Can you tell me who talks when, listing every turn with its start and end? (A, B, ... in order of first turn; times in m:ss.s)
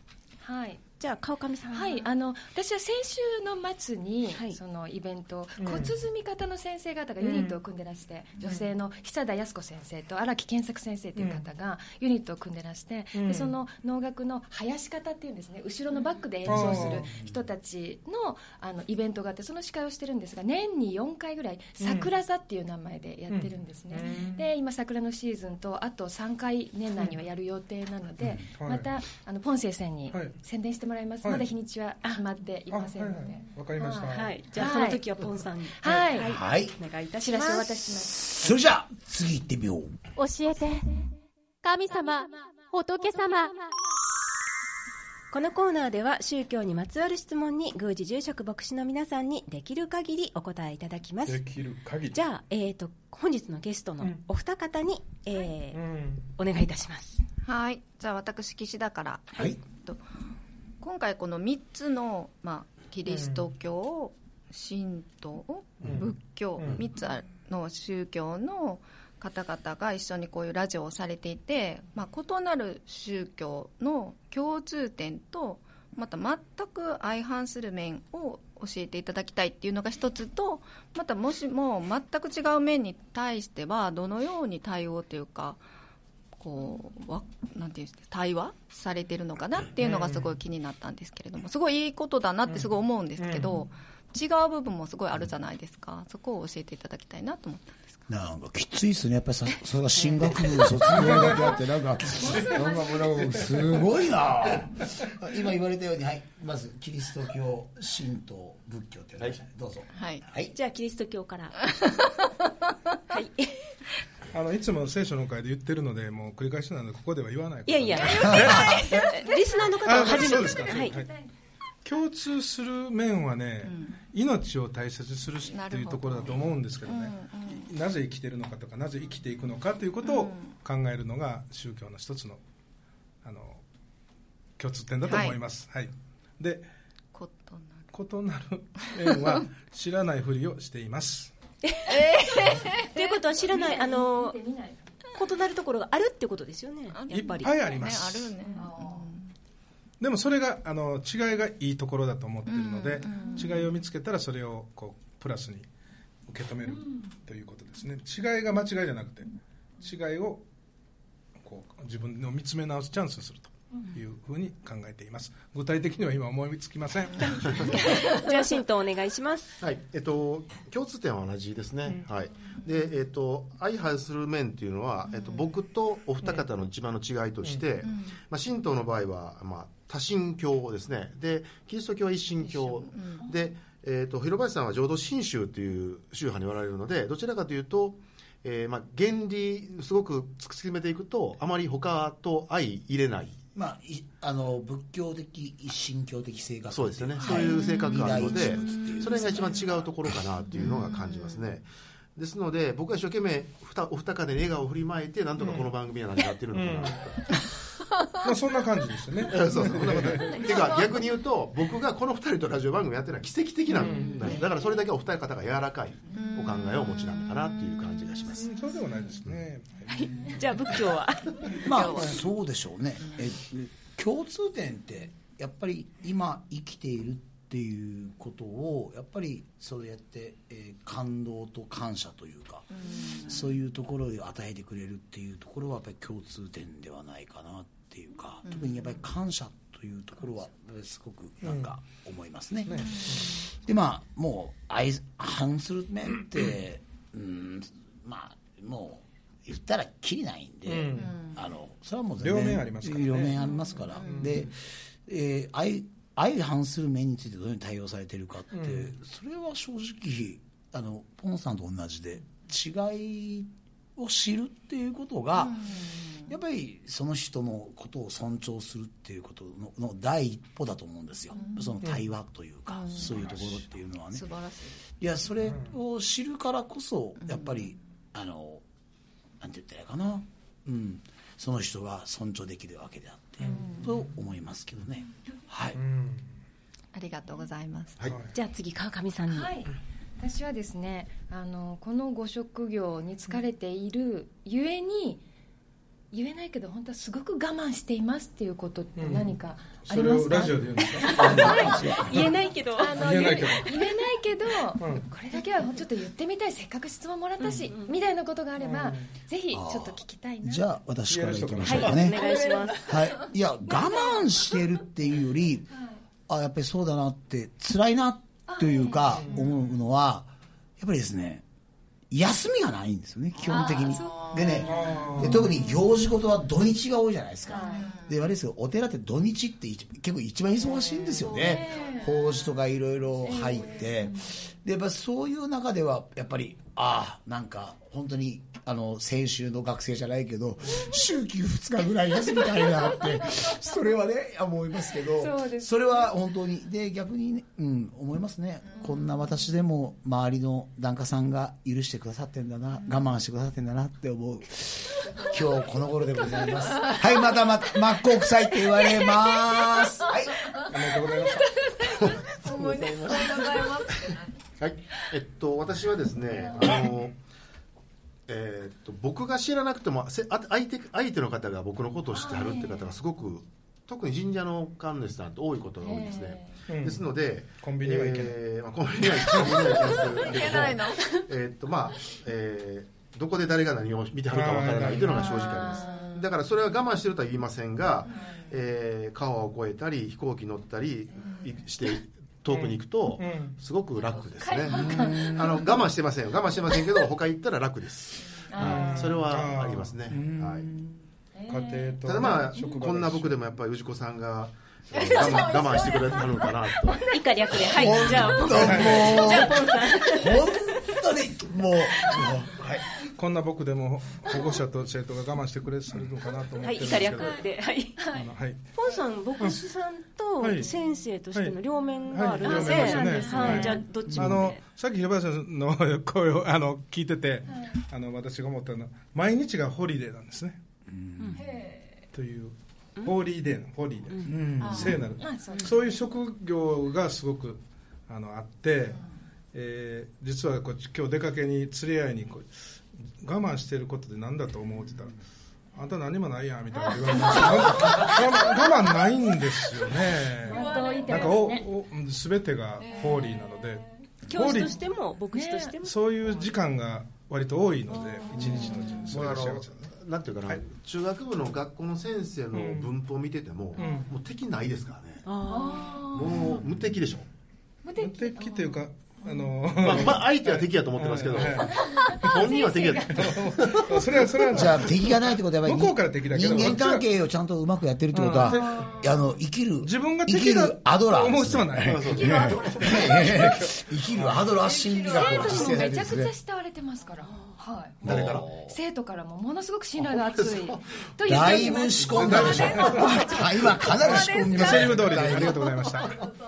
0:00.4-0:00.8 A
0:01.0-0:02.1 B
0:01.7-0:35.1 A
0:04.3-0:04.6 B
0:05.6-0:06.0 C
0:11.2-0:11.5 C
0:13.1-0:13.5 C
0:16.4-0:17.1 C
0:16.6-0:17.3 D
0:21.8-0:22.1 C
0:23.3-0:24.5 C
0:28.2-0:28.5 D
0:28.6-0:28.9 C
0:31.2-0:31.5 C
0:32.7-0:34.4 C
0:34.1-0:38.0 B
0:35.8-0:36.3 A
0:36.2-0:36.8 D
0:37.2-0:38.3 A
0:38.1-0:40.0 D
0:40.2-0:41.1 E
0:41.6-0:43.7 E
0:45.3-0:51.4 B
0:51.2-0:52.2 C
0:52.1-0:57.2 B
0:55.7-0:56.3 C
0:57.4-1:00.0 F
1:00.8-1:25.6 F
1:03.1-1:03.5 C
1:05.8-1:06.8 C
1:26.4-1:38.1 F
1:29.8-1:30.3 C
1:32.5-1:33.6 C
1:38.1-1:50.6 D
1:40.0-1:40.8 B
1:40.9-1:41.6 C
1:42.1-1:43.4 A
1:42.2-1:42.6 C
1:43.1-1:43.8 C
1:49.9-1:50.2 F
1:50.5-1:51.6 B
1:51.6-1:52.3 F
1:53.1-1:53.7 B
1:54.3-1:59.0 C
1:57.7-2:01.0 B
1:58.2-1:59.1 D
1:59.8-2:01.1 C
2:00.3-2:01.2 A
2:01.8-2:12.4 C
2:03.6-2:04.1 F
2:05.4-2:07.7 F
2:10.0-2:10.6 F
2:13.2-2:13.6 C
2:14.6-2:16.7 C
2:15.0-2:15.4 F
2:17.1-2:17.9 F
2:17.9-2:21.3 C
2:19.1-2:19.3 F
2:21.6-2:24.4 B
2:21.9-2:23.2 F
2:23.4-2:24.9 A
2:25.2-2:27.5 B
2:26.9-2:29.3 F
2:27.1-2:28.4 C
2:28.4-2:29.1 A
2:30.0-2:35.7 C
2:32.5-2:33.7 F
2:33.1-2:33.6 A
2:36.3-2:39.3 C
2:39.8-2:40.4 C
2:41.4-2:47.9 C
2:47.7-2:49.6 B
2:47.9-2:48.2 F
2:49.6-3:13.4 G
2:55.1-2:55.5 F
2:57.8-2:58.2 F
3:02.6-3:03.3 F
3:13.6-3:20.1 D
3:16.7-3:27.4 G
3:17.2-3:19.7 F
3:20.6-3:21.4 F
3:26.5-3:27.0 C
3:28.2-3:30.4 C
3:29.2-3:38.6 G
3:33.8-3:34.3 C
3:33.9-3:34.3 F
3:36.2-3:38.0 F
3:38.4-3:40.4 C
3:39.9-3:41.6 B
3:41.6-4:34.3 D
3:41.6-3:42.3 F
3:52.7-3:53.5 F
3:58.5-3:58.9 F
4:01.4-4:01.7 C
4:02.7-4:03.4 C
4:02.8-4:03.4 F
4:10.7-4:11.2 C
4:11.0-4:11.5 F
4:12.2-4:13.4 C
4:14.0-4:14.5 C
4:18.5-4:18.9 C
4:25.4-4:26.3 F
4:31.3-4:31.8 F
4:32.7-4:33.3 F
4:33.2-4:33.5 C
4:34.1-4:34.8 F
4:35.0-4:38.6 D
4:35.5-4:35.7 C
4:37.2-4:37.8 F
4:39.4-4:45.8 D
4:43.5-4:43.9 F
4:45.8-4:46.3 C
4:46.9-4:48.0 F
4:48.0-4:48.4 C
4:48.3-4:49.5 B
4:49.3-4:55.2 A
4:56.1-5:02.2 A
4:59.0-4:59.3 C
4:59.9-5:02.3 C
5:01.1-5:03.8 B
5:01.2-5:02.2 D
5:02.8-5:10.7 A
5:02.9-5:03.8 C
5:04.8-5:05.1 C
5:07.4-5:07.9 B
5:08.6-5:09.1 C
5:09.5-5:12.2 D
5:11.1-5:12.2 C
5:11.6-5:13.2 B
5:12.2-5:12.7 A
5:12.8-5:15.8 D
5:13.7-5:14.2 A
5:16.3-5:21.4 D
5:18.5-5:19.4 A
5:19.2-5:19.6 C
5:22.1-6:00.6 D
5:23.4-5:25.0 F
5:23.5-5:24.1 A
5:24.7-5:25.5 C
5:27.5-5:27.9 A
5:27.5-5:28.2 F
5:30.8-5:32.3 F
5:31.4-5:32.1 A
5:33.3-5:34.2 A
5:45.2-5:46.0 A
5:48.7-5:49.1 F
5:55.1-5:55.5 F
5:56.6-5:57.1 F
5:59.8-6:04.3 F
6:00.7-6:01.5 C
6:01.9-6:03.7 G
6:04.6-6:07.2 G
6:08.3-6:40.7 G
6:12.1-6:12.8 A
6:15.8-6:16.6 A
6:16.7-6:17.0 C
6:17.6-6:18.4 C
6:19.3-6:19.7 C
6:19.5-6:21.2 F
6:24.3-6:25.2 C
6:25.1-6:26.1 A
6:25.1-6:26.3 F
6:32.5-6:33.6 C
6:34.4-6:35.6 A
6:34.7-6:35.6 D
6:38.5-6:39.2 A
6:38.6-6:40.3 C
6:40.1-6:41.0 D
6:41.4-6:42.0 A
6:41.5-6:43.4 C
6:42.0-6:47.1 G
6:44.9-6:47.0 F
6:46.9-6:50.6 B
6:47.6-6:52.9 D
6:48.0-6:49.4 C
6:53.0-6:57.4 C
6:56.6-6:58.2 B
6:58.0-6:58.3 A
6:58.1-6:58.7 C
6:58.7-7:04.6 B
7:00.4-7:00.7 C
7:01.3-7:01.6 C
7:01.8-7:03.9 A
7:02.1-7:10.6 C
7:04.1-7:04.5 D
7:07.5-7:07.7 A
7:10.9-7:11.4 D
7:11.4-7:11.8 A
7:12.1-7:19.0 C
7:14.3-7:15.0 D
7:14.6-7:15.0 F
7:15.2-7:15.9 A
7:19.5-7:22.5 C
7:23.0-7:25.2 C
7:25.7-7:34.8 C
7:30.4-7:31.7 A
7:34.3-7:36.0 B
7:35.3-7:35.8 A
7:35.8-7:39.9 C
7:38.4-7:39.0 A
7:39.1-7:45.2 G
7:42.5-7:42.9 C
7:43.8-7:44.1 C
7:43.8-7:44.1 A
7:45.3-7:46.4 B
7:45.4-7:46.6 A
7:46.1-7:47.3 G
7:47.8-7:49.9 A
7:48.0-7:52.4 C
7:49.8-7:54.9 G
7:51.7-7:53.4 A
7:53.1-7:57.0 C
7:54.5-8:06.3 D
7:58.1-7:59.1 C
7:58.4-7:59.2 A
7:59.8-8:02.3 C
8:01.8-8:03.3 G
8:02.2-8:03.3 A
8:03.3-8:04.6 C
8:04.8-8:13.0 A
8:04.9-8:05.2 F
8:08.0-8:08.5 G
8:08.0-8:08.8 D
8:10.0-8:11.0 G
8:11.2-8:15.7 D
8:11.9-8:13.3 G
8:12.1-8:13.2 C
8:13.9-8:16.3 C
8:13.9-8:14.9 B